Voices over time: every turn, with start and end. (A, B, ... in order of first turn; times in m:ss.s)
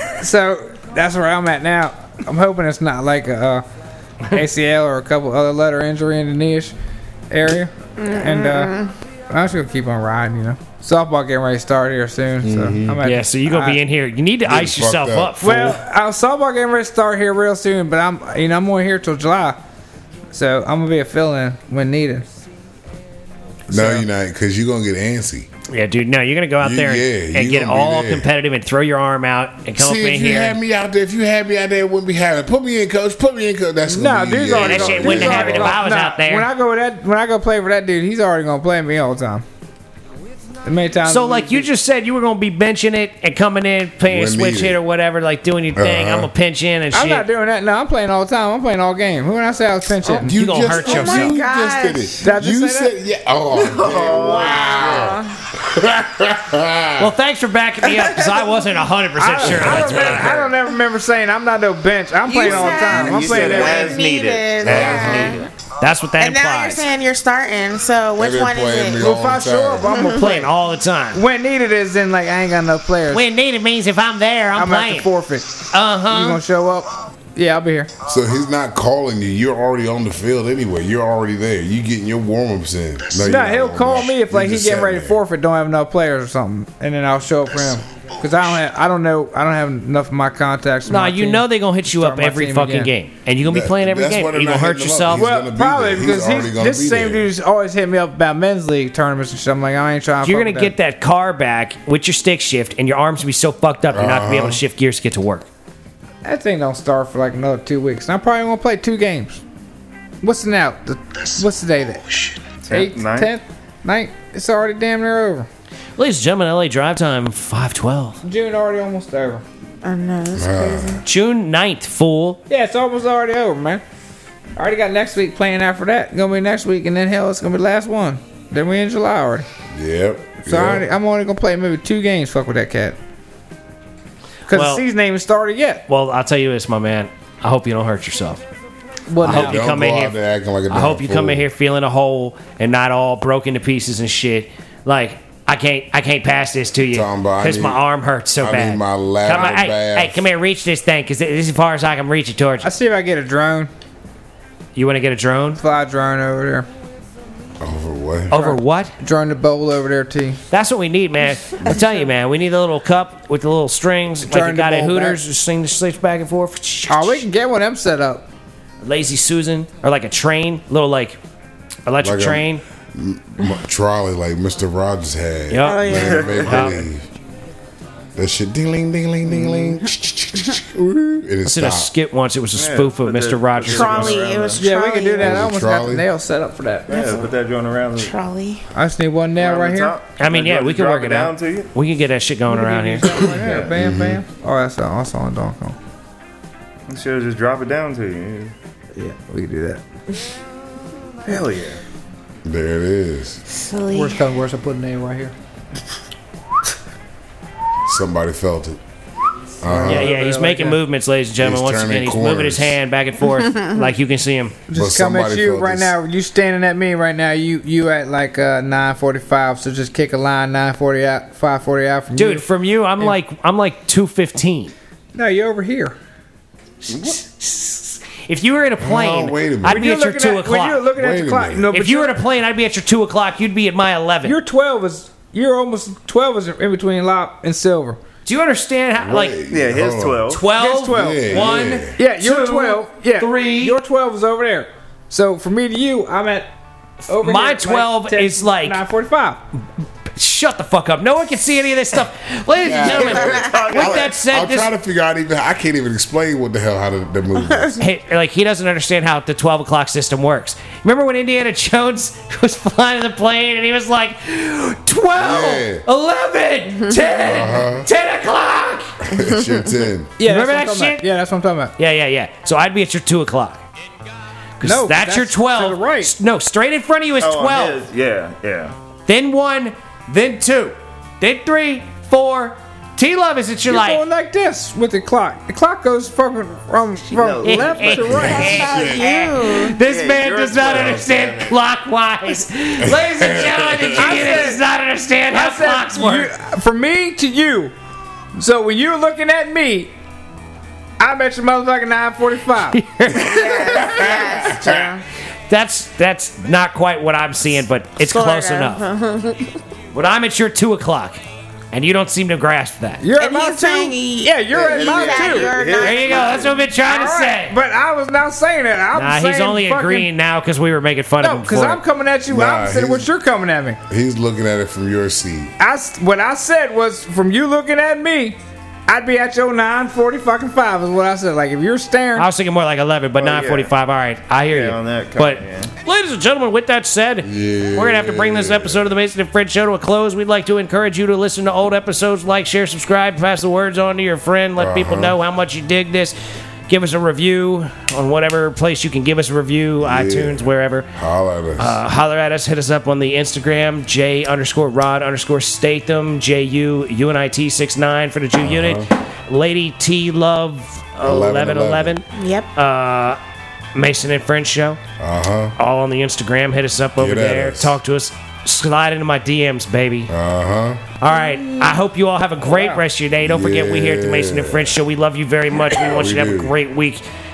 0:00.2-0:03.6 A
0:04.2-0:06.7 A
0:07.3-0:08.8 A
0:08.0-0:08.9 B
0:09.3-0:13.8 A
0:12.4-0:13.0 C
0:13.0-0:15.8 D
0:14.4-0:15.4 C
0:15.4-0:19.6 A
0:20.3-0:22.3 A
0:23.7-0:24.0 A
0:23.7-0:25.5 C
0:25.7-0:30.6 D
0:26.6-0:28.3 C
0:29.8-0:35.8 C
0:33.9-0:39.4 A
0:34.5-0:36.5 D
0:40.6-0:41.7 A
0:41.0-0:47.3 D
0:44.0-0:44.8 C
0:45.7-0:46.3 C
0:46.9-0:50.3 A
0:50.1-0:57.1 C
0:50.2-0:51.4 D
0:50.7-0:52.2 B
0:52.2-0:52.9 A
0:53.6-0:54.8 E
0:53.9-0:55.4 B
0:57.0-1:00.5 D
0:57.9-0:58.5 B
0:59.2-1:04.0 A
0:59.4-1:00.3 C
1:02.3-1:05.5 B
1:02.4-1:05.4 E
1:04.6-1:05.4 C
1:04.6-1:06.8 D
1:06.2-1:09.0 B
1:08.2-1:10.0 C
1:09.0-1:10.5 A
1:09.9-1:10.3 B
1:09.9-1:11.2 D
1:11.1-1:13.2 A
1:13.1-1:15.1 D
1:14.6-1:17.9 A
1:15.7-1:16.4 D
1:18.0-1:25.2 C
1:23.1-1:32.9 A
1:30.8-1:35.3 D
1:33.4-1:37.3 C
1:35.1-1:40.7 A
1:40.2-1:45.5 D
1:43.9-1:44.6 C
1:46.2-1:49.4 A
1:50.2-1:55.5 A
1:52.6-1:53.3 E
1:56.0-1:58.2 D
1:58.2-1:59.4 A
1:59.8-2:01.0 B
2:00.3-2:01.0 C
2:01.0-2:02.4 D
2:02.5-2:03.8 A
2:04.6-2:09.4 A
2:09.7-2:10.8 C
2:10.4-2:13.0 A
2:14.5-2:15.8 A
2:14.5-2:14.8 D
2:15.9-2:18.4 D
2:19.1-2:19.6 A
2:19.2-2:20.2 D
2:19.2-2:21.5 C
2:20.7-2:32.7 D
2:26.9-2:27.8 C
2:28.4-2:30.2 C
2:32.6-2:33.7 A
2:34.7-2:35.6 D
2:35.6-2:36.7 A
2:37.6-2:38.3 C
2:38.3-2:38.9 D
2:38.3-2:40.4 A
2:40.5-2:47.2 D
2:44.2-2:45.2 A
2:46.9-2:48.3 A
2:48.8-2:51.2 D
2:51.8-2:52.6 D
2:52.0-2:57.1 C
2:55.5-2:56.8 D
2:55.6-2:56.4 B
2:56.0-2:56.7 E
2:58.2-3:01.9 C
3:01.4-3:04.2 D
3:02.5-3:04.6 E
3:03.6-3:05.5 B
3:04.6-3:07.3 A
3:05.2-3:06.0 C
3:06.9-3:08.1 E
3:08.0-3:08.6 B
3:08.7-3:10.0 A
3:09.4-3:11.7 E
3:10.2-3:13.1 D
3:12.5-3:15.8 A
3:13.1-3:13.8 E
3:13.2-3:14.2 C
3:16.9-3:18.5 E
3:19.0-3:19.8 A
3:21.2-3:21.8 E
3:22.4-3:23.4 C
3:23.6-3:24.2 B
3:23.9-3:25.3 A
3:27.8-3:28.8 C
3:29.6-3:30.2 C
3:29.6-3:30.8 A
3:29.8-3:34.6 D
3:31.4-3:32.8 C
3:33.4-3:33.8 B
3:34.7-3:42.5 A
3:34.7-3:35.9 C
3:42.1-3:44.7 D
3:45.1-3:46.0 A
3:46.8-3:50.9 D
3:48.8-3:49.8 C
3:49.6-3:52.2 A
3:50.9-3:51.7 C
3:51.7-3:54.4 D
3:54.2-3:58.0 A
3:58.2-3:59.4 D
3:59.0-4:00.3 C
3:59.5-4:00.4 E
4:00.3-4:03.8 D
4:00.4-4:06.5 A
4:00.9-4:02.0 C
4:07.1-4:09.4 A
4:07.1-4:08.8 D
4:10.2-4:14.7 D
4:12.6-4:17.8 C
4:13.0-4:13.8 B
4:13.2-4:14.2 E
4:17.4-4:17.8 B
4:17.8-4:29.0 D
4:25.2-4:25.8 C
4:27.2-4:27.9 C
4:29.0-4:30.1 C
4:30.2-4:31.7 A
4:30.2-4:31.0 D
4:31.8-4:33.6 D
4:34.6-4:37.8 D
4:34.6-4:36.1 A
4:37.2-4:38.7 E
4:39.0-4:44.0 D
4:43.7-4:48.6 A
4:47.1-4:48.2 E
4:47.4-4:56.3 D
4:48.0-4:49.0 C
4:48.2-4:49.8 B
4:49.8-4:51.1 E
4:50.6-4:51.5 C
4:52.8-4:54.5 C
4:53.9-4:54.6 A
4:55.3-4:57.7 A
4:58.3-4:59.9 A
5:01.0-5:02.8 A
5:02.6-5:03.5 D
5:03.1-5:05.0 B
5:03.3-5:04.9 C
5:05.5-5:08.8 D
5:08.0-5:09.6 B
5:09.9-5:13.0 D
5:13.0-5:15.7 A
5:13.1-5:16.5 B
5:14.5-5:16.7 E
5:15.7-5:17.6 D
5:16.8-5:20.1 A
5:18.9-5:21.8 D
5:21.2-5:23.8 A
5:22.3-5:23.1 C
5:23.9-5:25.5 C
5:25.6-5:32.3 A
5:32.2-5:46.2 D
5:33.2-5:33.7 E
5:34.5-5:35.7 E
5:37.2-5:38.9 C
5:44.6-5:45.2 C
5:46.7-5:50.9 D
5:49.8-5:51.8 C
5:51.6-6:03.2 D
5:58.4-5:58.9 C
6:01.0-6:02.0 C
6:02.1-6:02.5 B
6:03.7-6:04.8 D
6:05.0-6:05.5 C
6:05.6-6:10.1 D
6:07.0-6:07.8 C
6:10.1-6:10.8 C
6:11.0-6:17.0 D
6:11.1-6:11.8 B
6:12.4-6:12.8 A
6:13.2-6:14.8 C
6:15.6-6:16.5 C